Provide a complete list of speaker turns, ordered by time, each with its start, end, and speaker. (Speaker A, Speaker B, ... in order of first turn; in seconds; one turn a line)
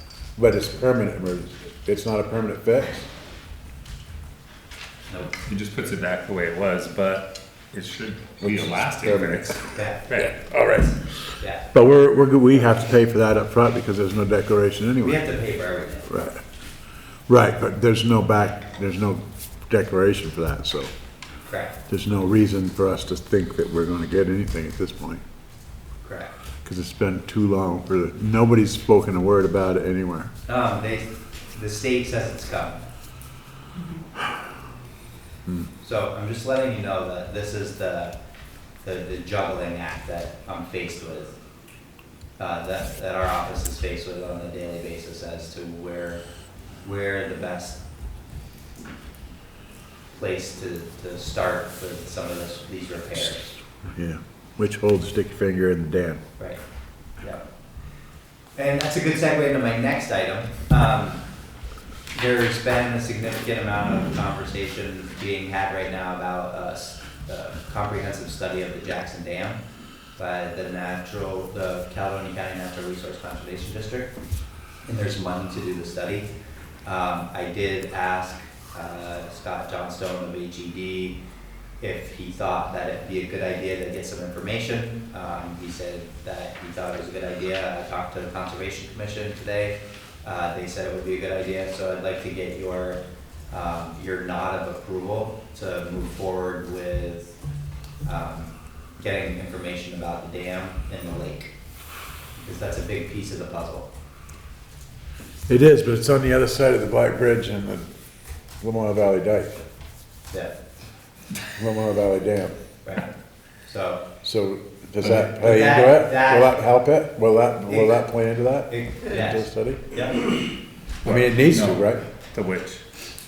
Speaker A: 0.4-3.1
Speaker B: 5.1-5.3
Speaker C: 5.5-10.4
Speaker A: 8.4-9.6
Speaker B: 9.7-10.0
Speaker A: 10.4-11.0
Speaker B: 11.4-11.7
Speaker A: 11.7-15.2
Speaker B: 15.0-16.1
Speaker A: 16.1-16.4
Speaker A: 17.3-20.9
Speaker B: 21.5-21.7
Speaker A: 21.9-25.2
Speaker B: 26.0-26.3
Speaker A: 26.6-30.3
Speaker B: 30.5-32.8
Speaker B: 35.8-38.1
Speaker B: 38.8-41.3
Speaker B: 42.4-46.2
Speaker B: 46.8-47.8
Speaker B: 50.1-53.6
Speaker A: 53.9-56.2
Speaker B: 57.2-57.4
Speaker B: 58.5-61.2
Speaker B: 62.1-69.6
Speaker B: 70.2-74.1
Speaker B: 74.8-76.3
Speaker B: 76.8-81.2
Speaker B: 81.8-97.3
Speaker B: 98.0-101.5
Speaker B: 102.4-103.9
Speaker A: 105.5-107.9
Speaker A: 108.6-109.6
Speaker A: 111.5-112.5
Speaker B: 112.8-113.1
Speaker B: 113.7-114.0
Speaker A: 114.2-119.8
Speaker B: 115.2-116.6
Speaker B: 117.6-118.0
Speaker B: 118.7-120.3
Speaker A: 121.0-122.0
Speaker C: 121.0-122.8